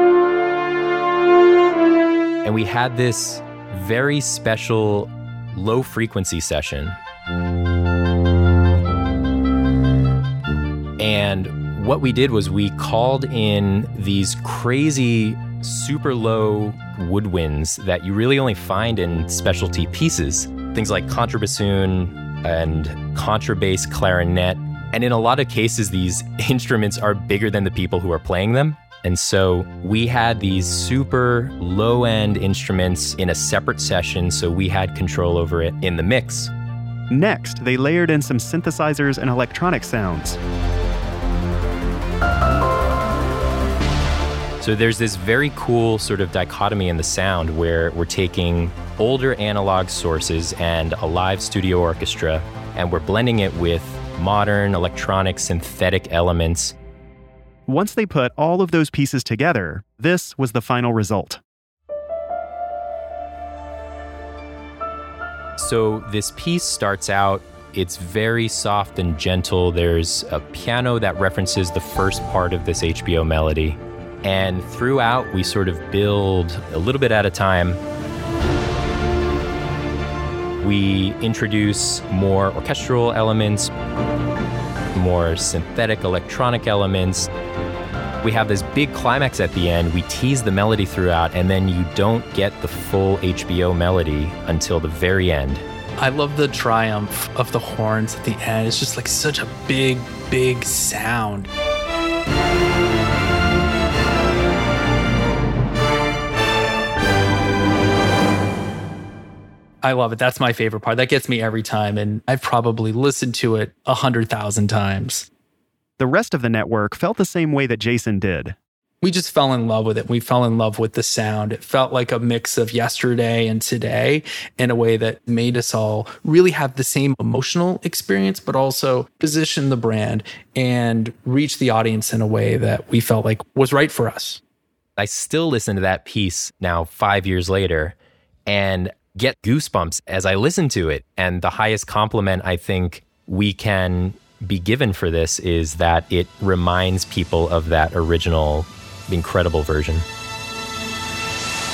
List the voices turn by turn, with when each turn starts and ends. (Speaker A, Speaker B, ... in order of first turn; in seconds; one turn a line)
Speaker A: 2.4-7.0
Speaker A: 11.0-36.5
Speaker B: 37.1-40.4
Speaker A: 44.6-56.8
Speaker B: 57.7-61.4
Speaker A: 65.6-77.8
Speaker A: 80.6-83.7
Speaker A: 84.9-87.3
Speaker A: 88.2-95.6
Speaker C: 96.0-101.5
Speaker C: 109.8-115.3
Speaker B: 116.0-118.5
Speaker C: 119.0-134.4
Speaker A: 135.0-137.9
Speaker A: 138.5-150.1